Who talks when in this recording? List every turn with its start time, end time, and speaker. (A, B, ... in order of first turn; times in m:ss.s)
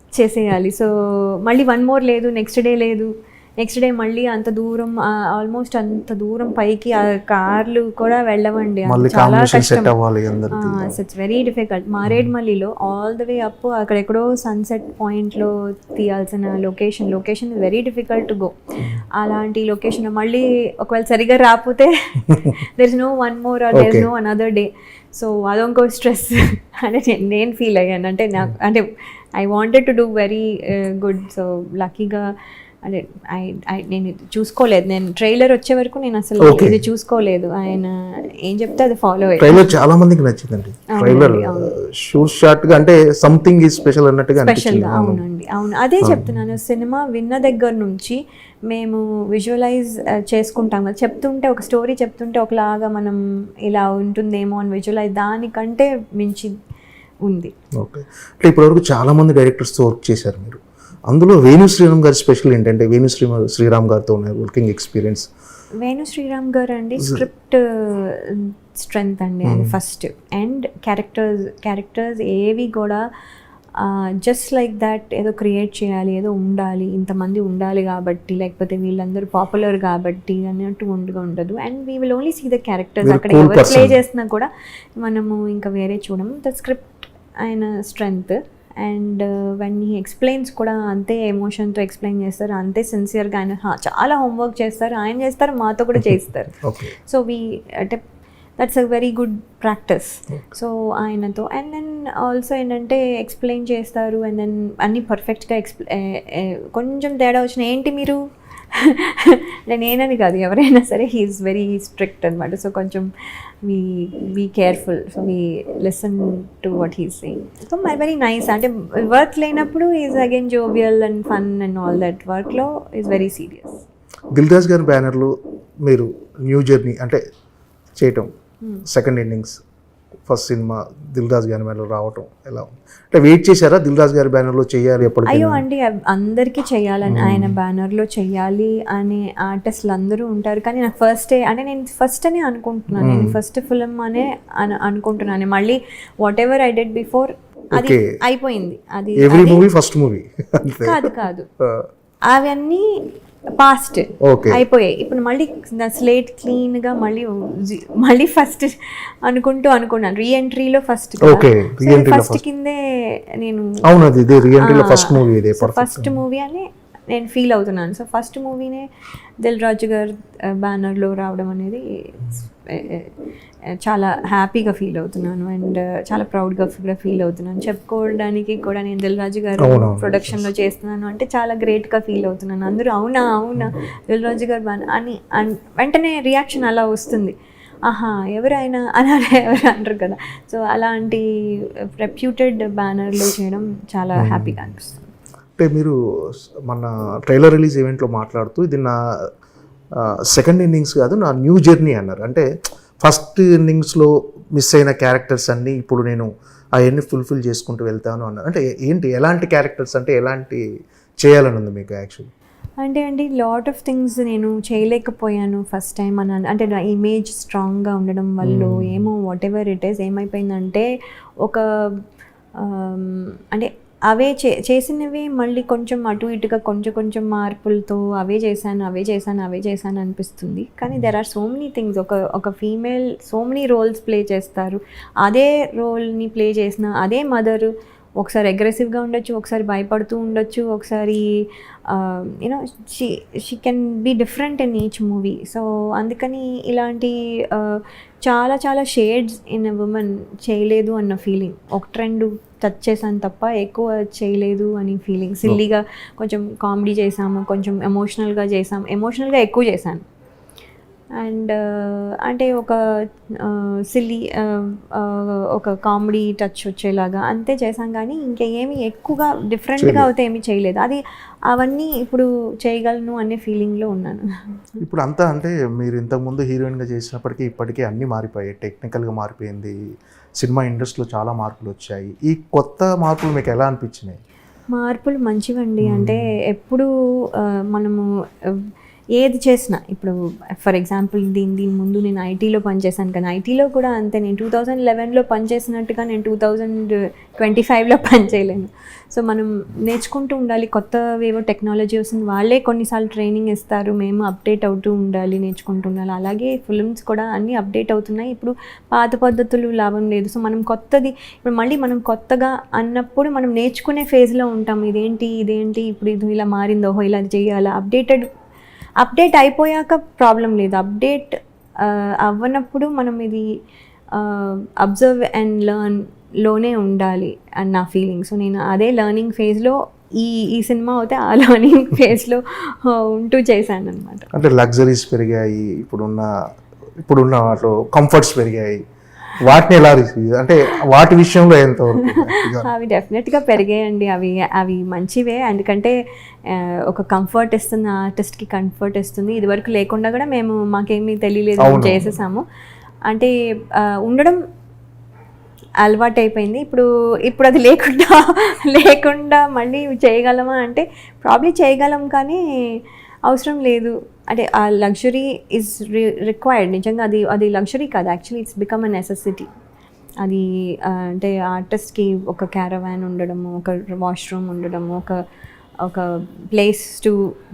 0:00.2-0:09.9 A
0:08.8-0:11.0 B
0:10.5-0:18.6 A
0:12.0-0:12.3 B
0:19.1-0:32.3 A
0:23.7-0:24.1 B
0:32.8-0:39.7 A
0:36.4-0:36.8 B
0:39.4-0:45.2 B
0:40.9-0:41.7 A
0:44.4-0:48.2 A
0:46.0-0:46.3 B
0:48.7-0:56.5 A
0:57.2-0:57.5 A
0:57.8-1:05.3 B
1:05.8-1:13.0 A
1:09.4-1:09.8 B
1:13.8-1:38.0 A
1:23.0-1:24.0 B
1:36.6-1:36.9 B
1:38.6-1:48.2 A
1:48.7-1:53.1 A
1:53.6-2:03.8 A
2:04.3-2:05.3 B
2:05.8-2:07.2 B
2:08.0-2:08.3 B
2:08.9-2:09.6 B
2:10.3-2:15.6 B
2:15.2-2:29.7 A
2:17.1-2:17.6 B
2:22.9-2:23.4 B
2:27.8-2:28.0 B
2:29.2-2:31.1 B
2:30.8-2:31.5 A
2:32.3-2:32.8 A
2:33.6-2:43.8 A
2:34.2-2:34.6 B
2:41.2-2:42.4 B
2:43.8-2:46.2 B
2:44.5-2:48.8 A
2:49.4-2:53.1 A
2:53.8-3:07.3 A
2:59.6-3:00.4 B
3:07.9-3:15.0 A
3:14.2-3:14.6 B
3:15.6-3:15.9 B
3:16.7-3:19.0 B
3:20.0-3:22.4 B
3:23.0-3:30.6 B
3:31.2-3:32.3 B
3:32.8-3:40.9 A
3:38.4-3:39.0 B
3:41.4-3:41.9 A
3:42.6-4:01.2 A
4:01.9-4:20.0 A
4:21.2-4:22.8 A
4:23.4-4:34.8 A
4:29.8-4:30.1 B
4:34.8-4:39.7 B
4:40.4-4:44.2 B
4:44.7-4:48.6 A
4:45.8-4:46.2 B
4:49.2-5:18.2 A
5:19.0-5:23.5 A
5:24.1-5:34.3 A
5:34.3-5:36.3 B
5:37.0-5:38.8 B
5:39.4-5:42.7 B
5:42.0-5:45.9 A
5:46.5-5:52.4 A
5:51.6-5:52.1 B
5:53.1-5:54.4 A
5:55.8-6:02.4 A
6:03.3-6:09.5 A
6:10.2-6:15.2 A
6:15.8-6:17.3 A